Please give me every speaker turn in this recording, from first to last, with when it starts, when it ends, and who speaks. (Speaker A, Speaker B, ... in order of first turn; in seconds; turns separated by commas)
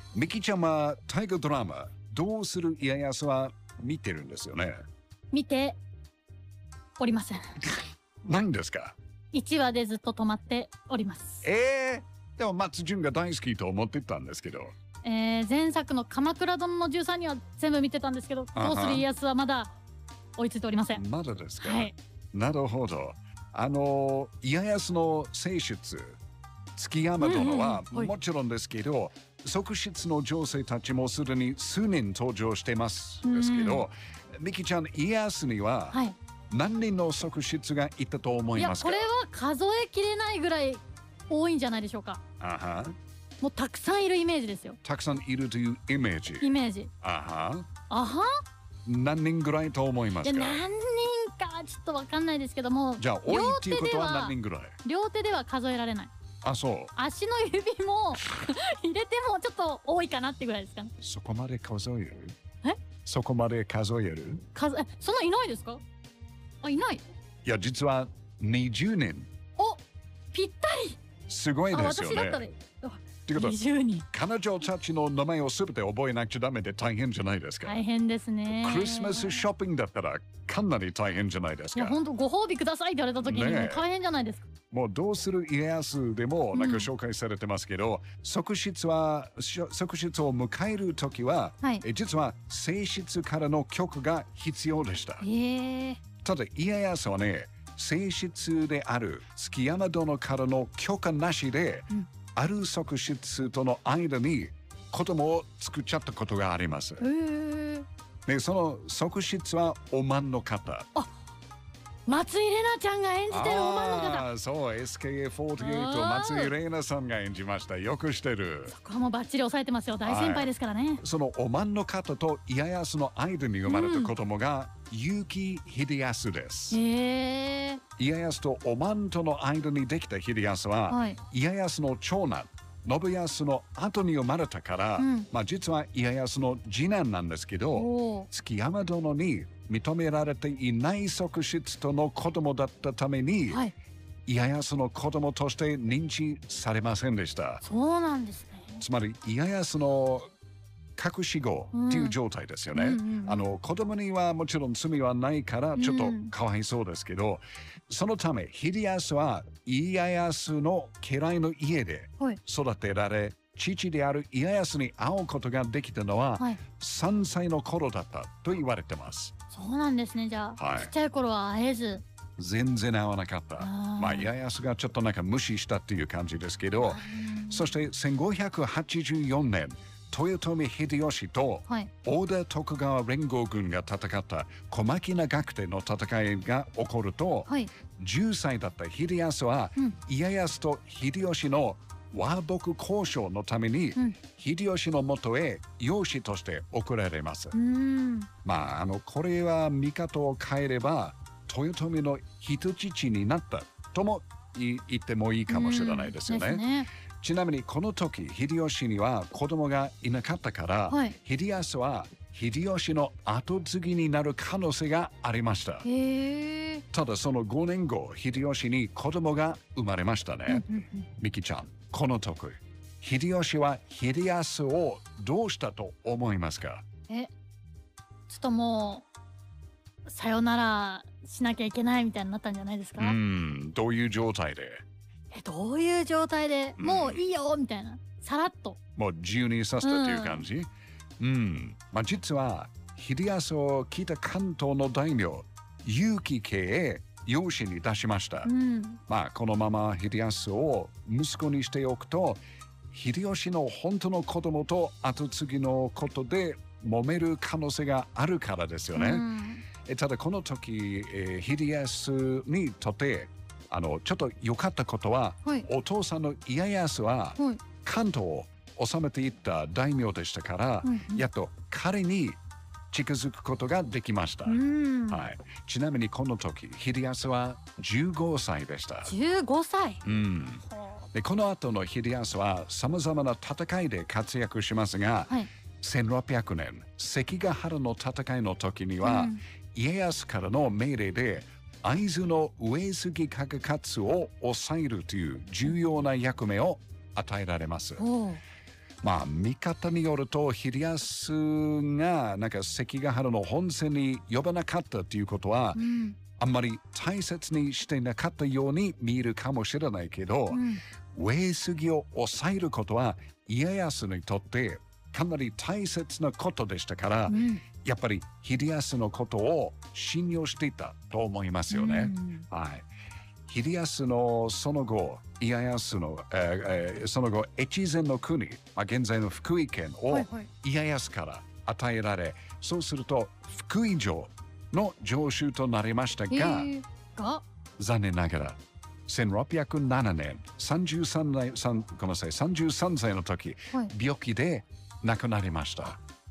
Speaker A: 0.1-4.8, Speaker B: 5.3-5.8, Speaker B: 7.0-7.7, Speaker A: 8.2-8.9, Speaker B: 9.3-11.4, Speaker A: 11.4-14.7, Speaker B: 15.0-19.8, Speaker A: 18.5-19.1, Speaker B: 20.4-21.0, Speaker A: 20.9-26.2, Speaker B: 21.6-21.9, Speaker A: 26.8-39.1, Speaker B: 27.2-28.1, Speaker B: 33.2-33.8, Speaker B: 38.5-42.2, Speaker A: 42.4-42.9, Speaker B: 43.4-44.8, Speaker A: 44.8-47.7, Speaker B: 46.4-46.9, Speaker B: 47.9-48.3, Speaker A: 48.8-50.6, Speaker B: 50.2-56.1, Speaker A: 53.0-54.8, Speaker A: 56.4-56.9, Speaker B: 57.0-60.9, Speaker A: 61.0-62.4, Speaker A: 63.0-64.4, Speaker B: 64.5-65.8, Speaker B: 66.6-67.0, Speaker A: 67.4-69.3, Speaker B: 69.6-69.8, Speaker B: 70.3-71.0, Speaker A: 71.3-72.4, Speaker B: 71.7-74.0, Speaker A: 73.3-73.6, Speaker A: 74.1-77.8, Speaker B: 77.6-79.5, Speaker A: 78.5-82.0, Speaker B: 81.7-84.4, Speaker A: 83.2-83.8, Speaker A: 84.7-95.2, Speaker B: 86.5-86.9, Speaker B: 95.2-96.0, Speaker A: 96.2-107.0, Speaker B: 107.0-107.9, Speaker A: 108.2-110.9, Speaker B: 112.1-114.3, Speaker A: 113.3-118.7, Speaker B: 115.6-116.5, Speaker B: 118.7-121.0, Speaker A: 120.0-120.5, Speaker A: 121.0-126.8, Speaker B: 123.7-124.1, Speaker B: 126.7-127.8, Speaker A: 128.0-143.6, Speaker B: 130.9-131.2, Speaker B: 135.0-135.3, Speaker B: 137.7-138.3, Speaker A: 144.3-147.6, Speaker B: 147.6-148.8, Speaker A: 148.8-150.3, Speaker A: 151.0-169.3, Speaker B: 151.7-152.2, Speaker B: 152.7-153.4, Speaker B: 155.7-156.3, Speaker B: 169.5-172.0, Speaker A: 170.6-170.9, Speaker A: 172.4-197.6, Speaker B: 173.6-174.3, Speaker B: 176.8-177.8, Speaker B: 197.5-198.3, Speaker A: 198.4-206.7, Speaker B: 205.5-206.9, Speaker A: 207.2-215.9, Speaker B: 210.9-211.2, Speaker B: 215.8-216.8, Speaker A: 216.9-226.8, Speaker B: 220.5-221.1, Speaker B: 228.3-229.1, Speaker B: 230.1-233.2, Speaker A: 233.0-234.8, Speaker B: 235.3-238.8, Speaker A: 236.8-237.2, Speaker A: 238.9-248.5, Speaker B: 239.8-240.4, Speaker B: 248.4-249.0, Speaker A: 249.1-252.4, Speaker A: 252.9-259.3, Speaker B: 258.9-259.6, Speaker A: 259.8-272.4, Speaker B: 270.8-271.2, Speaker A: 272.9-279.1, Speaker B: 274.4-275.2, Speaker B: 279.1-280.0, Speaker A: 280.0-298.0, Speaker B: 289.0-289.4, Speaker B: 298.0-298.4, Speaker A: 299.0-305.8, Speaker B: 305.7-306.2, Speaker A: 306.4-322.8, Speaker B: 310.5-310.8, Speaker B: 317.3-317.6, Speaker B: 321.7-322.4, Speaker A: 323.5-336.7, Speaker B: 330.1-330.5, Speaker B: 336.3-337.4, Speaker A: 337.8-346.0